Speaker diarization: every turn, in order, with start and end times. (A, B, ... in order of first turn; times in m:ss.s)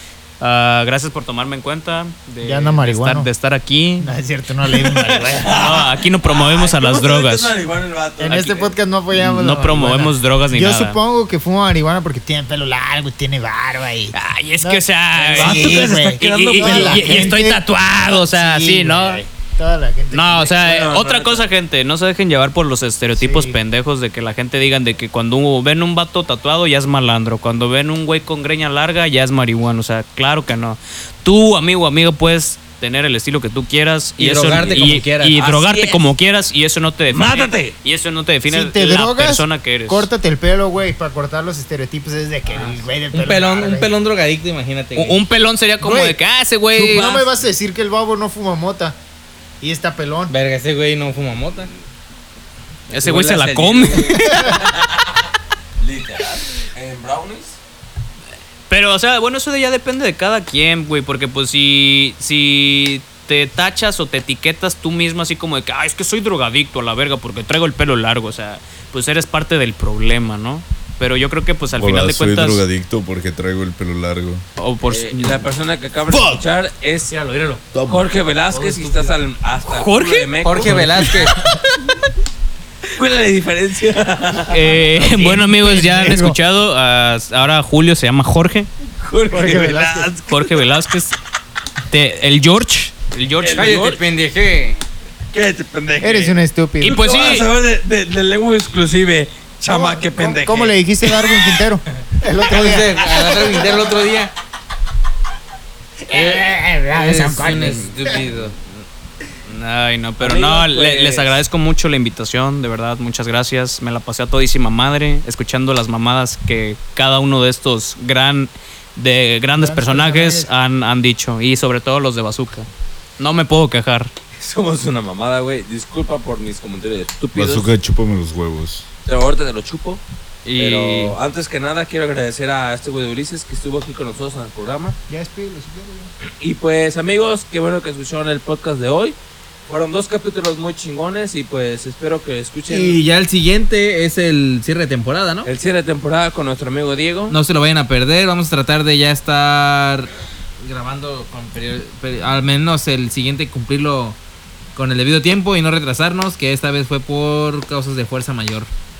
0:00.4-0:04.1 A
0:02.4-0:03.3 B
0:04.0-0:05.8 B
0:04.7-0:07.5 A
0:05.4-0:08.6 C
0:08.2-0:17.6 B
0:08.3-0:11.0 A
0:14.1-0:19.2 A
0:15.3-0:17.4 C
0:18.3-0:20.6 B
0:20.1-0:40.1 A
0:20.6-0:21.4 C
0:23.2-0:23.6 B
0:34.2-0:35.4 D
0:34.4-0:36.1 C
0:37.1-0:37.8 C
0:38.5-0:43.9 B
0:42.5-0:45.2 D
0:45.0-0:47.2 A
0:45.8-0:46.2 B
0:46.7-0:49.0 B
0:49.6-0:50.3 B
0:50.3-0:51.7 D
0:52.9-0:54.6 A
0:52.9-0:55.3 C
0:55.8-0:57.6 C
0:58.7-1:12.6 A
1:11.8-1:14.4 E
1:14.6-1:15.4 A
1:14.8-1:17.2 C
1:17.1-1:17.6 D
1:17.7-1:18.1 E
1:17.9-1:21.2 C
1:18.5-1:19.2 D
1:19.7-1:21.1 A
1:20.4-1:21.4 D
1:23.0-1:24.7 C
1:24.5-1:28.7 A
1:24.6-1:26.4 B
1:29.0-1:30.6 C
1:29.3-1:30.1 B
1:30.3-1:31.2 A
1:31.9-1:33.9 A
1:33.4-1:34.0 C
1:33.6-1:34.8 D
1:35.3-1:41.6 C
1:36.0-1:37.1 B
1:36.8-1:37.5 A
1:39.7-1:43.9 B
1:42.4-1:44.3 D
1:46.1-1:48.1 B
1:46.1-1:48.6 D
1:47.4-1:47.9 C
1:49.4-2:02.7 A
1:50.2-1:51.4 C
1:59.5-2:00.5 B
2:03.2-2:04.1 A
2:04.4-2:07.7 C
2:07.4-2:08.9 E
2:09.1-2:10.0 C
2:10.4-2:11.1 A
2:10.6-2:15.0 C
2:15.1-2:16.1 B
2:16.4-2:19.2 C
2:19.7-2:23.0 C
2:22.7-2:25.5 D
2:25.4-2:27.4 C
2:27.3-2:30.1 D
2:30.6-2:34.2 D
2:34.8-2:38.7 D